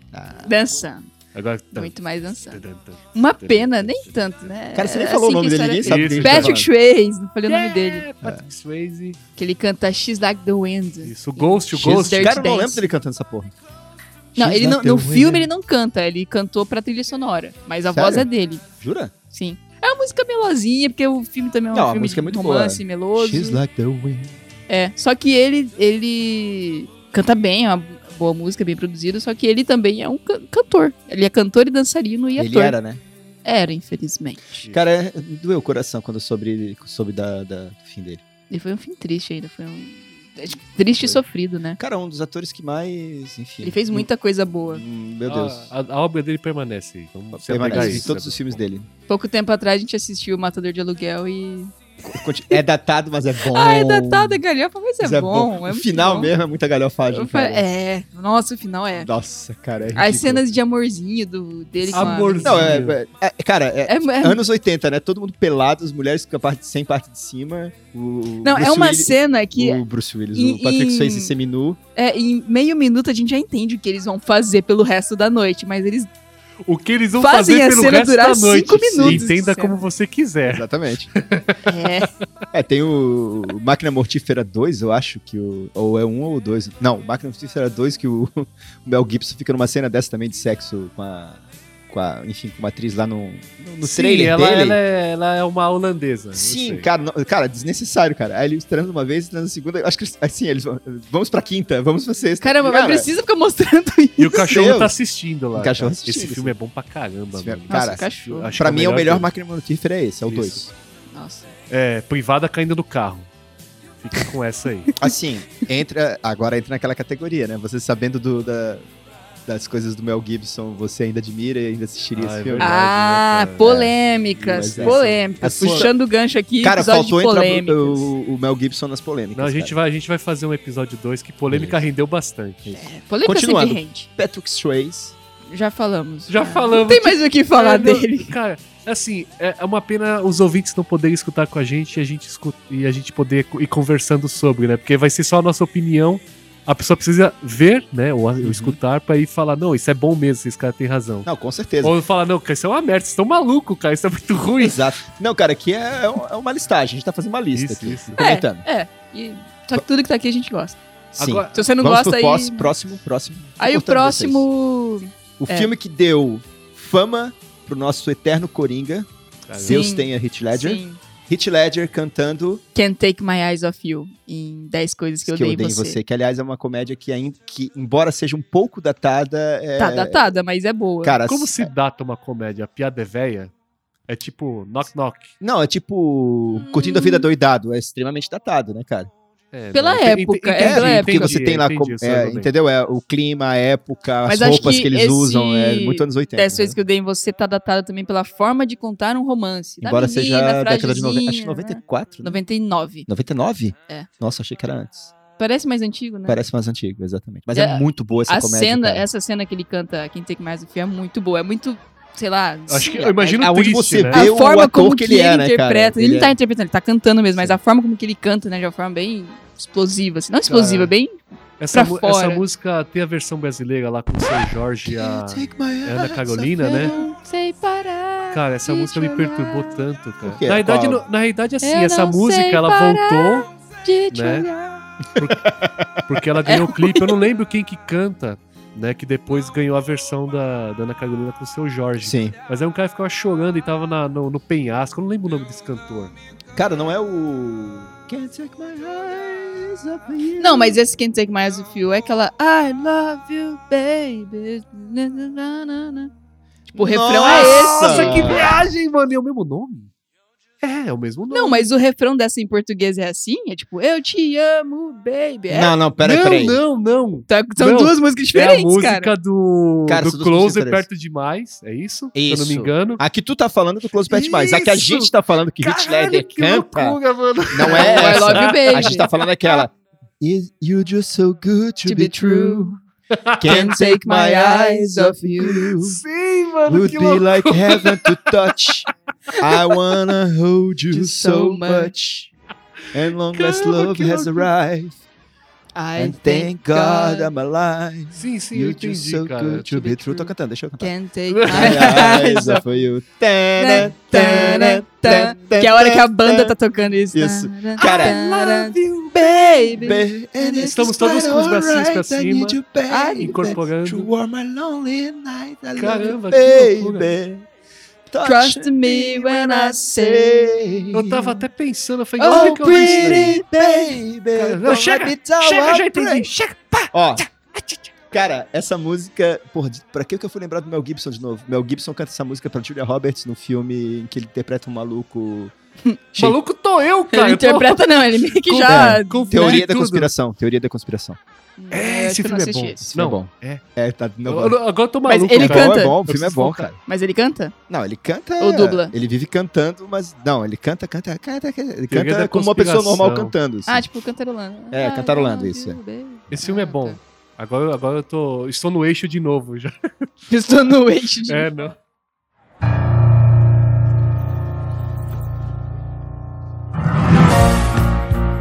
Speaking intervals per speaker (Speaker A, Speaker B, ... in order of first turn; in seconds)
Speaker A: 0.1-0.5, 4.7-6.7, 11.7-13.5, 14.3-15.5, 17.9-18.3, 18.8-19.1, 21.7-24.3, 32.4-33.0, 34.6-38.2, 41.8-44.1, 44.6-45.7, 47.3-48.9, 52.0-54.4, 55.0-57.6, 58.9-60.4, 61.9-71.8, 79.0-79.3, 80.5-81.1, 82.5-94.8, 96.3-103.1, 104.4-104.9, 105.5-106.5, 107.3-110.7, 115.0-118.9, 119.5-122.8, 123.6-125.9, 126.6-129.7, 131.5-131.8, 132.6-135.1, 148.4-148.8, 151.2-151.9, 154.6-158.6, 161.1-164.5, 165.4-172.6, 175.2-180.3, 181.0-181.7, 185.4-189.1, 190.6-196.8, 199.8-202.4, 203.1-205.1, 206.3-209.0, 213.2-216.3, 224.8-227.0, 230.2-231.0, 235.2-236.1, 242.0-242.3, 246.5-250.8, 256.7-258.6, 265.5-266.6, 269.9-270.8, 272.1-277.0, 277.5-282.7, 283.4-286.0, 286.7-292.3, 292.9-295.0, 296.0-300.9, 301.5-306.6, 307.1-308.2, 309.2-317.4, 318.1-321.4, 322.3-326.3, 326.9-327.2, 328.1-335.5, 338.7-341.2, 342.9-344.6, 345.3-346.8, 347.7-353.9, 354.7-355.8
Speaker B: 0.4-1.1, 1.7-2.6, 3.1-8.0, 9.4-12.8, 14.3-18.6, 19.3-23.6, 24.7-32.8, 33.4-34.6, 38.5-41.8, 43.6-44.8, 47.6-48.0, 49.1-51.7, 53.5-56.3, 57.1-59.1, 59.9-62.7, 63.9-64.4, 68.4-69.8, 70.3-71.3, 72.0-76.1, 77.2-79.8, 81.6-82.1, 102.4-104.4, 107.7-108.5, 111.1-111.5, 122.6-128.1, 132.7-134.1, 135.5-138.3, 158.2-160.8, 161.5-162.7, 163.6-165.7, 169.6-171.0, 172.7-176.0, 179.8-181.2, 186.5-187.3, 189.7-191.3, 194.2-203.1, 205.4-206.4, 207.5-213.4, 214.1-221.2, 221.7-222.4, 226.6-229.8, 231.6-234.8, 236.5-237.2, 250.4-256.1, 256.7-258.4, 261.3-265.7, 267.3-269.1, 277.6-279.1, 281.9-282.8, 283.4-285.6, 290.9-291.9, 295.8-297.3, 299.8-302.6, 303.6-310.9, 312.9-313.6, 318.2-320.6, 322.2-323.9, 337.1-339.6, 341.6-342.8, 345.1-346.0, 346.9-347.5, 348.4-348.9, 353.7-357.0, 360.3-361.5
Speaker C: 1.3-1.9, 2.5-4.3, 5.8-6.7, 7.5-9.2, 11.0-12.4, 45.2-48.6, 61.9-63.0, 76.6-81.6, 93.8-96.9, 104.2-109.3, 110.3-110.6, 111.7-113.3, 114.0-114.9, 122.2-123.7, 124.4-125.9, 129.3-132.7, 136.3-151.3, 151.8-154.8, 157.5-158.2, 161.2-161.7, 169.5-169.8, 181.2-183.5, 184.1-185.3, 189.5-192.5, 212.7-214.2, 220.5-220.9, 221.6-226.9, 228.3-233.5, 234.1-234.5, 236.0-246.1, 257.2-259.9, 260.6-261.7, 266.0-273.0, 274.1-279.6, 283.1-283.7, 285.6-288.7, 293.3-294.5, 298.1-300.0, 301.3-302.6, 307.8-310.0, 310.6-312.6, 313.1-314.1, 315.8-317.2, 320.9-323.4, 324.3-327.8, 336.1-340.1, 341.7-343.6, 344.2-346.7, 351.9-353.3, 356.3-360.1, 361.3-361.7